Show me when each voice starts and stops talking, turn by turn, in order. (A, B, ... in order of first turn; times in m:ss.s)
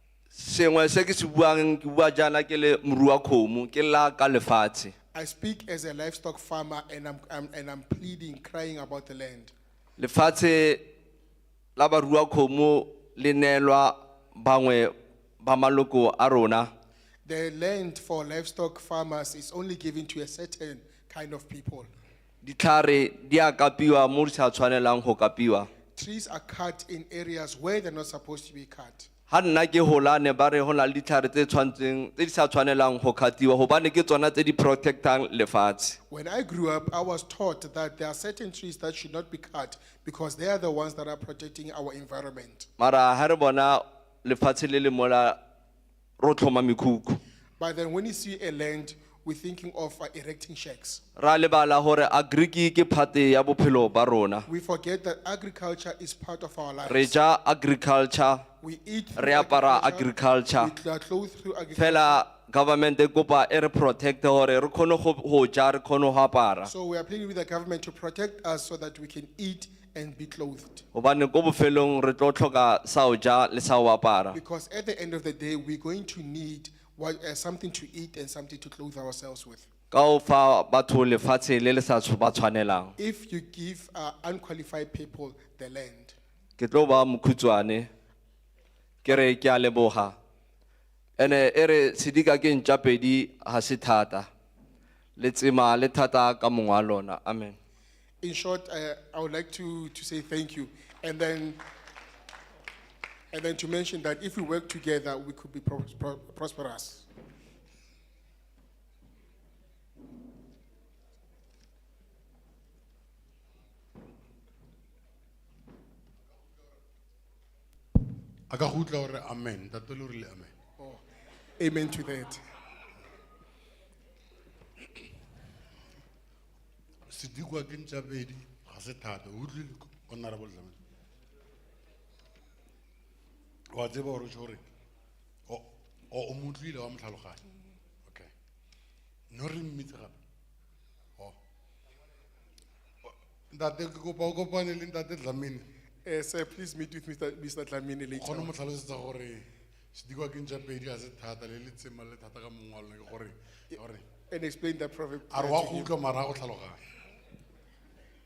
0:00.3-0:04.9 A
0:05.1-0:09.5 B
0:10.0-0:10.8 A
0:11.8-0:16.7 A
0:17.2-0:21.9 B
0:22.4-0:25.7 A
0:25.9-0:29.1 B
0:29.3-0:36.0 A
0:36.1-0:42.7 B
0:42.8-0:45.4 A
0:46.2-0:47.2 A
0:47.6-0:51.0 B
0:51.2-0:54.5 A
0:54.4-0:57.1 B
0:56.8-0:58.4 A
0:58.6-1:02.2 B
0:59.2-1:00.7 A
1:01.7-1:06.7 A
1:06.6-1:10.8 B
1:10.9-1:14.4 A
1:14.3-1:19.7 B
1:19.9-1:23.0 A
1:23.0-1:26.2 B
1:26.6-1:27.9 A
1:29.0-1:30.1 A
1:31.2-1:34.3 A
1:35.2-1:37.6 A
1:38.2-1:41.6 B
1:43.3-1:47.1 B
1:58.5-2:00.5 C
2:01.6-2:02.4 B
2:07.1-2:10.8 C
2:13.7-2:14.6 C
2:15.5-2:17.4 C
2:18.0-2:18.3 C
2:19.3-2:20.1 C
2:23.5-2:25.7 C
2:26.0-2:28.5 B
2:28.1-2:34.0 C
2:34.3-2:35.9 B
2:35.3-2:36.8 C